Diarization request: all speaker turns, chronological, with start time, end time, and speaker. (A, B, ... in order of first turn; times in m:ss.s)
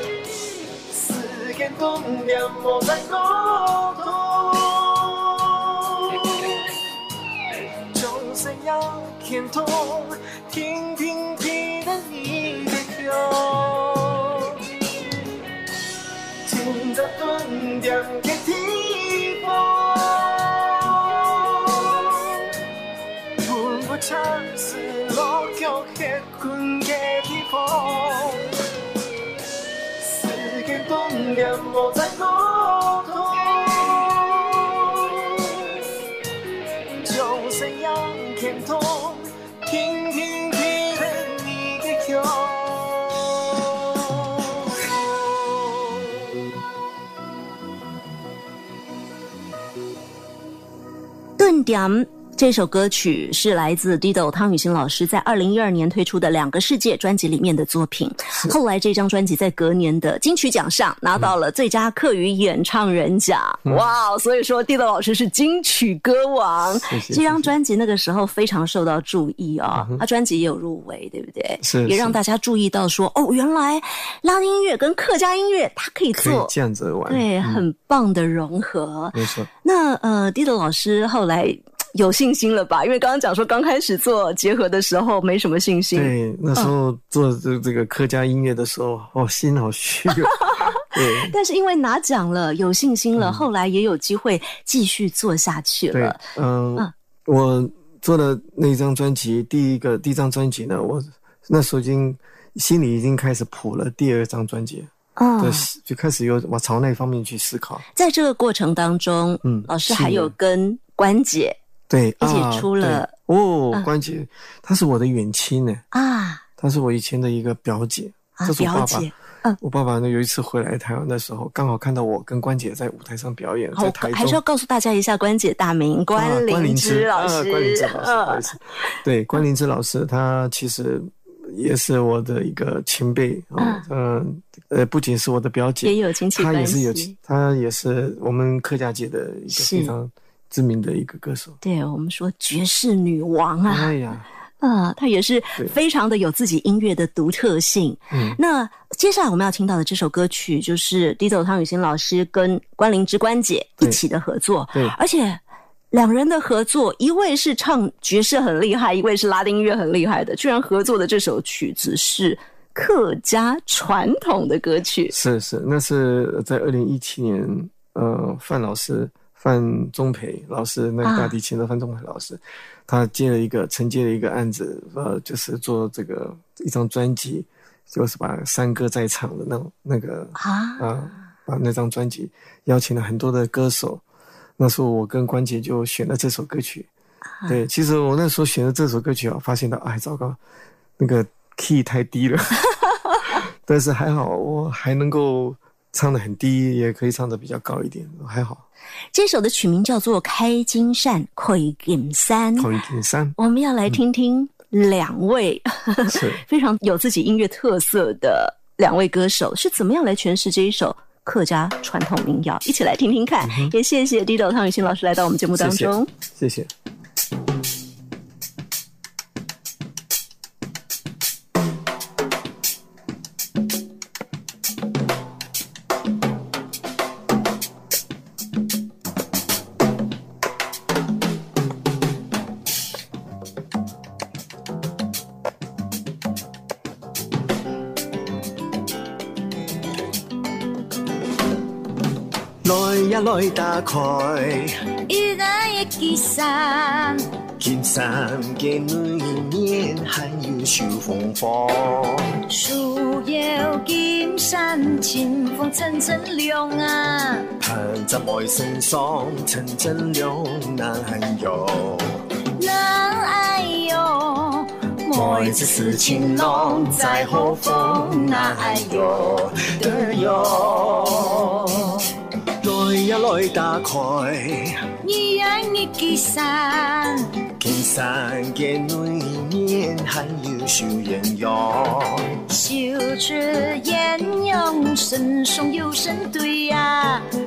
0:00.9-0:05.0 A
0:07.9-0:14.0 A
0:16.4-0:18.7 A
0:23.5-0:28.0 A
0:30.2-0:32.0 A
0:31.9-0:32.2 B
0:32.8-0:33.0 B
0:37.1-0:38.3 B
0:40.2-0:42.8 B
0:51.4-1:16.5 C
1:06.8-1:07.5 A
1:09.7-1:10.0 A
1:11.6-1:12.2 A
1:16.1-1:17.6 A
1:17.1-1:26.7 C
1:19.1-1:19.5 A
1:25.9-1:31.3 A
1:31.3-1:36.2 C
1:33.2-1:33.4 A
1:35.9-1:47.8 A
1:45.2-1:45.7 C
1:48.0-1:51.6 C
1:49.4-1:50.3 A
1:51.9-1:55.8 A
1:52.2-1:53.1 C
1:55.9-1:56.4 C
1:56.6-2:04.4 A
1:58.4-1:59.6 C
2:03.7-2:08.4 C
2:06.1-2:21.6 A
2:13.6-2:13.8 C
2:15.8-2:17.1 C
2:19.5-2:20.0 C
2:21.6-2:23.9 C
2:23.7-2:24.3 A
2:24.6-2:35.4 C
2:28.1-2:28.4 A
2:35.9-2:45.1 C
2:45.1-3:04.0 A
2:51.0-2:51.3 C
3:00.4-3:00.9 C
3:04.6-3:06.9 A
3:07.4-3:10.4 A
3:11.0-3:12.6 A
3:13.4-3:18.7 A
3:19.1-3:22.7 C
3:22.6-3:23.3 A
3:23.4-3:36.1 C
3:26.1-3:26.4 A
3:33.4-3:33.7 A
3:35.6-3:36.7 A
4:02.6-4:04.7 B
4:05.1-4:07.3 D
4:07.6-4:12.2 B
4:12.5-4:17.5 D
4:17.6-4:22.0 B
4:22.6-4:29.2 D
4:25.1-4:31.9 B
4:32.6-4:34.8 B
4:35.0-4:37.3 D
4:37.6-4:42.2 B
4:42.5-4:47.2 D